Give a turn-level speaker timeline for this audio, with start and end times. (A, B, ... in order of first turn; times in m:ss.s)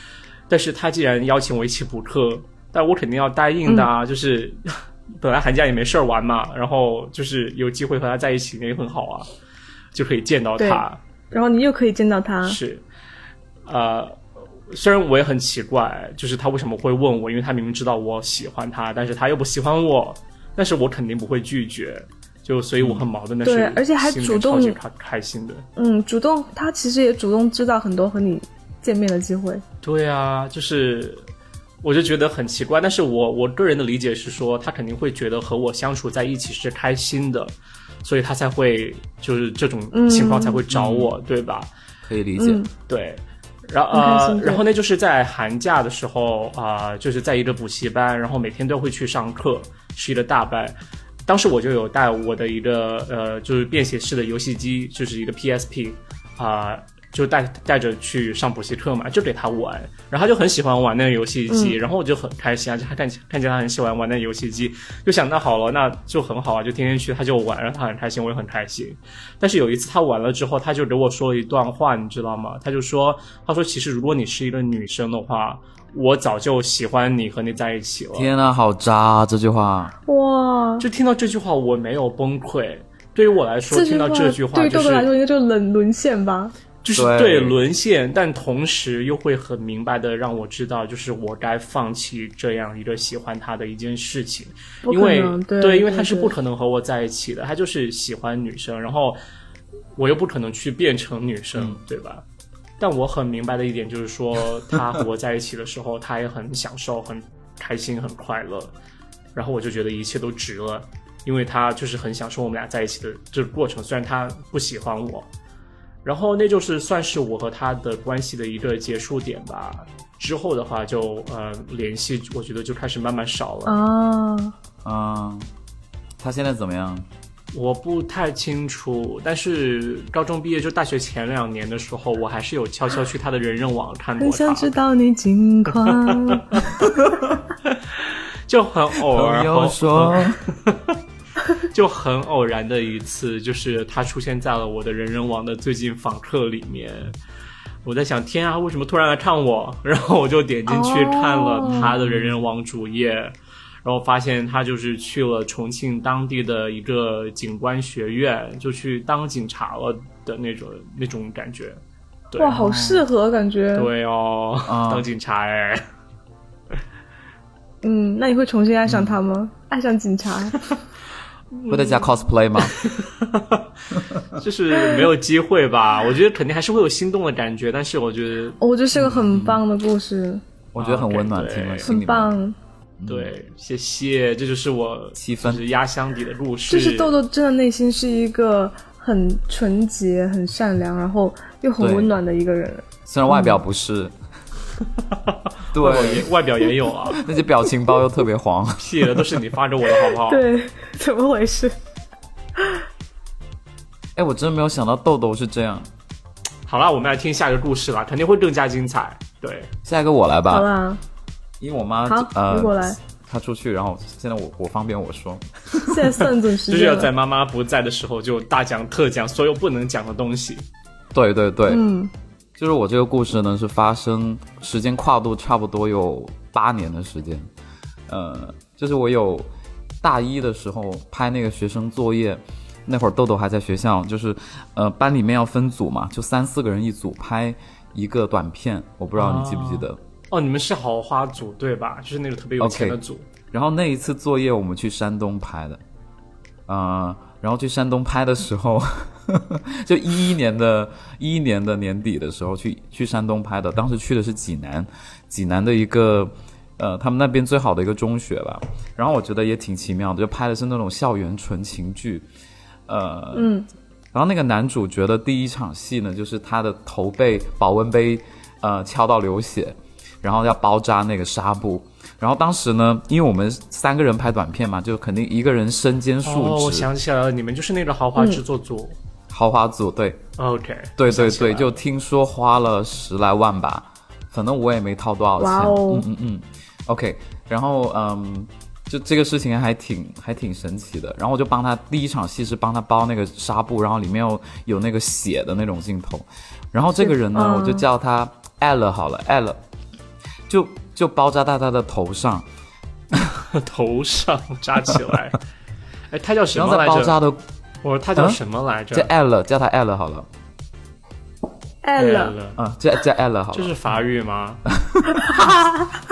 0:00.5-0:09.3 A
0:09.9-0:11.0 A
0:10.6-0:12.6 B
0:12.4-0:12.8 A
0:13.6-0:25.6 A
0:22.8-0:23.0 C
0:23.4-0:24.8 B
0:25.8-0:29.6 B
0:29.8-0:31.3 A
0:31.8-0:37.5 A
0:38.0-0:41.7 A
0:39.9-0:40.6 B
0:40.7-0:41.1 C
0:42.0-0:42.6 C
0:42.4-0:42.7 B
0:42.9-0:50.8 A
0:43.9-0:44.6 B
0:51.3-1:18.3 A
1:01.5-1:01.8 B
1:18.1-1:19.9 C
1:20.1-1:20.8 B
1:20.8-1:25.1 A
1:23.7-1:26.5 B
1:26.8-1:39.2 A
1:26.9-1:27.6 C
1:34.8-1:36.3 B
1:40.0-1:42.2 A
1:41.6-1:41.8 C
1:42.8-1:48.7 A
1:49.3-1:55.3 A
1:56.0-2:03.8 A
2:03.6-2:04.5 B
2:04.8-2:05.5 C
2:06.2-2:07.1 C
2:07.5-2:14.7 A
2:14.2-2:16.6 B
2:15.8-2:16.7 A
2:17.9-2:21.0 A
2:19.1-2:20.4 C
2:21.6-2:27.2 A
2:27.8-2:42.6 A
2:30.7-2:31.9 B
2:31.7-2:32.3 C
2:42.4-2:43.9 B
2:42.5-2:43.1 C
2:43.7-2:45.8 A
2:44.6-2:45.1 C
2:47.8-2:50.6 B
2:48.9-2:49.2 C
2:51.5-2:52.0 A
2:51.7-2:52.8 C
2:52.6-2:53.7 A
2:54.3-2:58.6 A
2:58.6-3:00.4 B
2:58.9-2:59.6 C
3:00.7-3:02.4 C
3:00.8-3:01.9 A
3:01.8-3:02.6 B
3:03.0-3:03.3 C
3:03.1-3:07.2 A
3:05.2-3:05.6 C
3:06.7-3:13.6 B
3:11.8-3:12.2 C
3:13.0-3:14.1 C
3:15.7-3:17.2 A
3:15.7-3:16.3 C
3:17.2-3:19.4 C
3:18.8-3:20.4 A
3:20.2-3:21.7 B
3:24.2-3:25.9 C
3:26.7-3:29.7 A
3:29.8-3:30.7 C
3:30.5-3:31.0 B
3:31.6-3:35.4 C
3:32.0-3:33.0 B
3:35.8-3:37.1 B
3:36.6-3:40.6 A
3:41.1-3:41.8 C
3:41.7-3:42.1 B
3:42.6-3:47.5 C
3:48.1-3:49.5 C
3:50.0-4:00.0 C
3:59.1-4:03.3 A
4:02.6-4:03.0 C
4:03.5-4:05.8 C
4:06.7-4:22.2 C
4:22.9-4:23.5 C
4:23.3-4:23.6 B
4:24.1-4:36.9 C
4:36.2-4:39.0 A
4:38.2-4:38.4 B
4:39.3-4:40.2 C
4:40.4-4:41.7 A
4:41.0-4:59.6 C
4:45.4-4:46.0 B
4:57.0-4:57.8 B
5:00.5-5:02.4 C
5:03.2-5:05.4 A
5:06.1-5:07.2 A
5:06.5-5:07.4 C
5:07.8-5:09.1 A
5:08.9-5:10.3 C
5:11.8-5:12.4 B
5:12.0-5:12.6 A
5:12.6-5:13.7 C
5:13.5-5:14.6 A
5:14.7-5:15.5 C
5:15.1-5:15.9 B